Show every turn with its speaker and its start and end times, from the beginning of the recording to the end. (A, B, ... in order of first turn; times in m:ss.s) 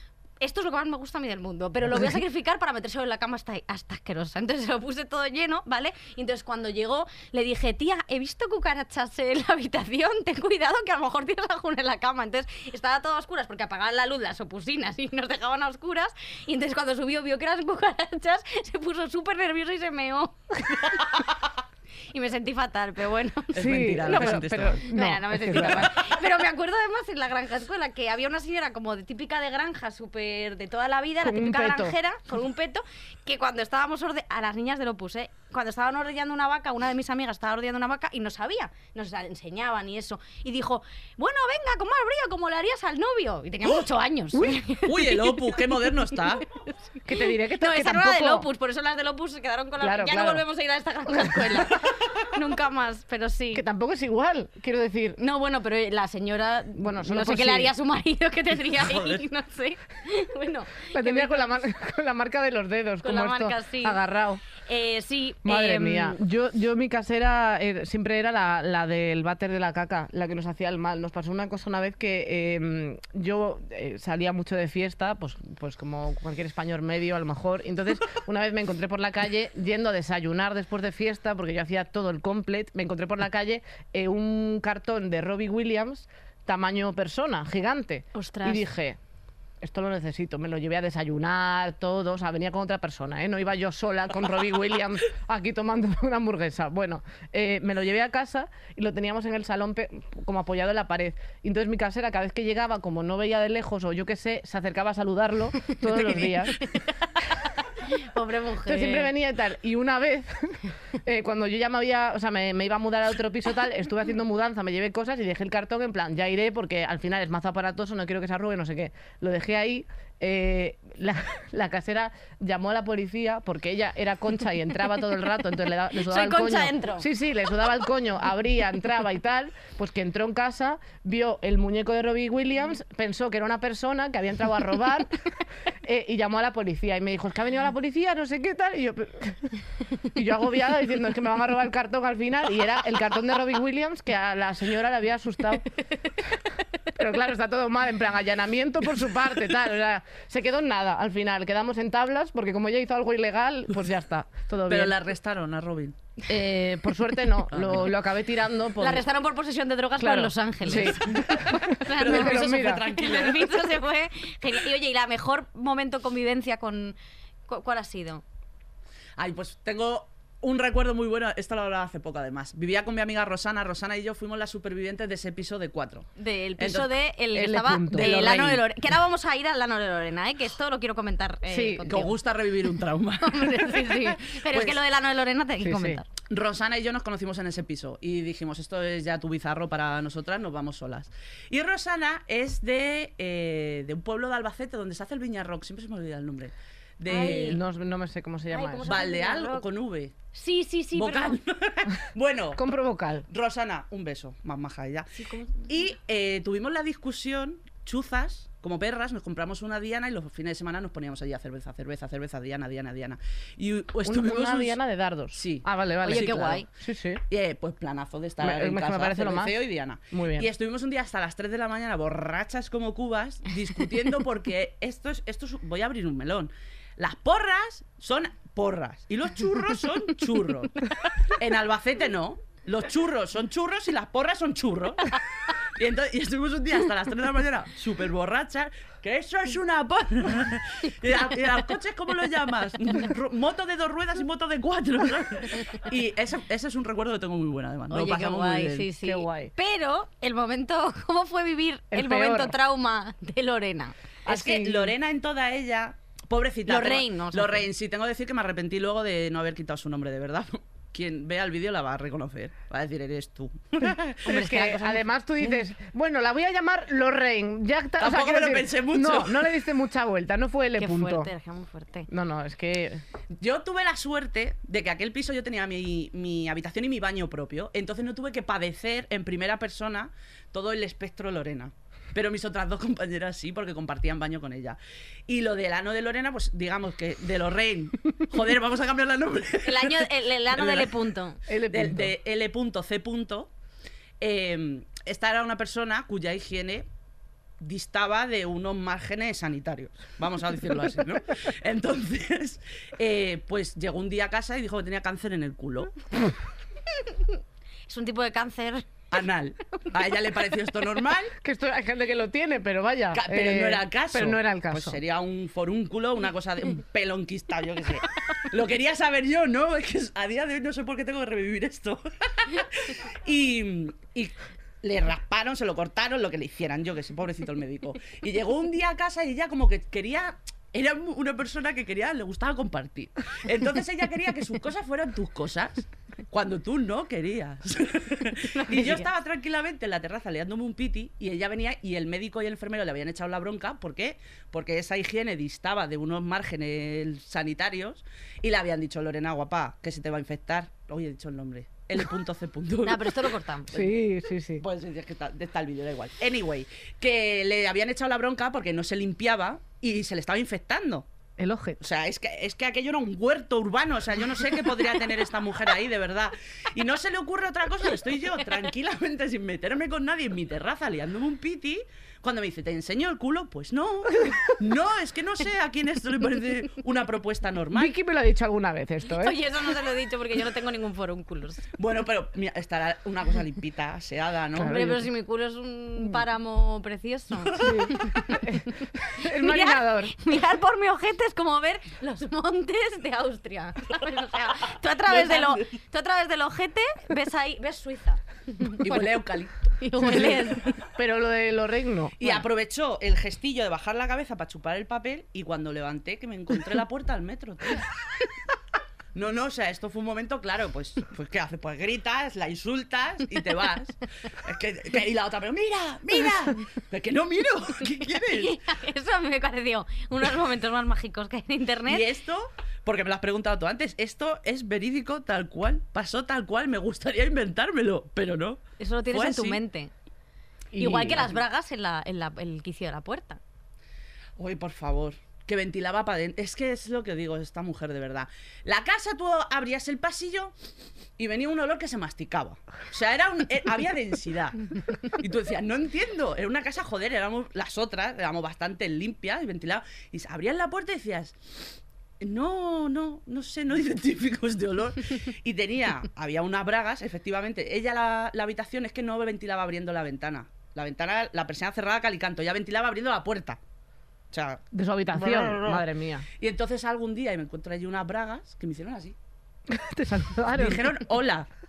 0:00.4-0:21.1 A
0:22.1-0:45.8 A
0:23.5-0:24.8 B
0:23.6-0:25.9 C
0:25.5-0:26.2 B
0:31.2-0:32.0 C
0:44.8-0:46.5 B
0:46.6-0:47.0 A
0:47.1-0:48.5 C
0:47.5-0:53.7 A
0:49.8-0:50.4 C
0:51.1-0:51.5 C
0:53.5-0:55.2 C
0:55.2-1:01.5 A
0:56.8-0:57.7 C
0:58.7-0:59.2 B
1:00.9-1:04.4 C
1:03.0-1:04.0 A
1:04.6-1:06.2 A
1:05.4-1:29.0 C
1:28.2-1:28.6 A
1:29.6-1:46.6 C
1:46.6-1:47.3 A
1:47.8-1:49.1 A
1:48.7-2:15.2 C
2:06.0-2:07.1 A
2:15.8-2:25.7 C
2:26.9-2:34.9 C
2:34.7-2:36.0 B
2:36.3-2:39.0 C
2:37.5-2:37.9 B
2:38.8-2:48.2 A
2:40.0-2:42.8 C
2:40.7-2:43.7 B
2:49.2-2:56.9 B
2:56.2-3:02.2 A
2:57.3-2:58.5 C
2:57.9-2:58.6 B
3:01.5-3:02.1 C
3:01.9-3:04.8 B
3:03.2-3:06.1 A
3:05.6-3:06.0 C
3:06.2-3:17.6 B
3:17.1-3:17.6 A
3:17.1-3:19.0 C
3:18.5-3:19.7 A
3:18.8-3:20.2 B
3:20.3-3:21.4 A
3:21.0-3:22.6 B
3:22.6-3:23.3 C
3:23.3-3:25.1 B
3:25.2-3:25.9 A
3:25.7-3:34.8 B
3:34.0-3:37.2 C
3:35.3-3:36.6 B
3:36.0-3:36.7 A
3:37.3-4:08.9 B
3:38.4-3:39.6 C
3:40.1-3:40.5 C
3:50.9-3:51.2 A
4:07.9-4:14.0 A
4:09.0-4:09.5 C
4:11.9-4:12.6 C
4:14.3-4:14.9 C
4:14.3-4:24.5 B
4:16.7-4:17.7 A
4:23.8-4:31.3 C
4:24.2-4:25.0 A
4:28.0-4:29.6 B
4:30.8-4:32.1 A
4:32.1-4:33.0 C
4:33.4-4:51.0 B
4:49.6-4:51.4 A
4:51.5-4:52.1 C
4:51.7-4:53.5 B
4:54.2-4:56.9 B
4:57.6-5:06.0 B
5:07.9-5:08.9 A
5:09.1-5:11.3 B
5:11.4-5:15.0 C
5:13.1-5:53.9 B
5:38.5-5:39.1 A
5:52.8-5:53.7 A
5:53.7-5:54.6 C
5:54.6-6:01.1 B
6:01.4-6:01.8 C
6:01.8-6:17.9 B
6:17.7-6:19.4 C
6:19.1-6:21.7 A
6:21.8-6:25.0 B
6:24.6-6:25.0 C
6:24.6-6:28.6 A
6:27.6-6:30.2 C
6:29.2-6:39.2 A
6:35.1-6:35.7 B
6:38.8-6:40.9 B
6:39.8-6:40.7 A
6:40.1-6:40.4 C
6:40.9-6:42.4 C
6:42.2-6:47.9 B
6:49.1-6:58.6 B
6:58.1-7:02.1 A
7:01.9-7:09.6 B
7:08.8-7:09.9 A
7:10.7-7:11.4 C
7:10.8-7:13.4 A
7:14.4-7:20.5 B
7:21.2-7:31.4 B
7:32.2-7:43.6 B
7:44.3-7:45.8 B
7:44.7-7:46.3 C
7:46.4-7:49.2 B
7:49.7-7:51.0 C
7:50.6-7:51.5 B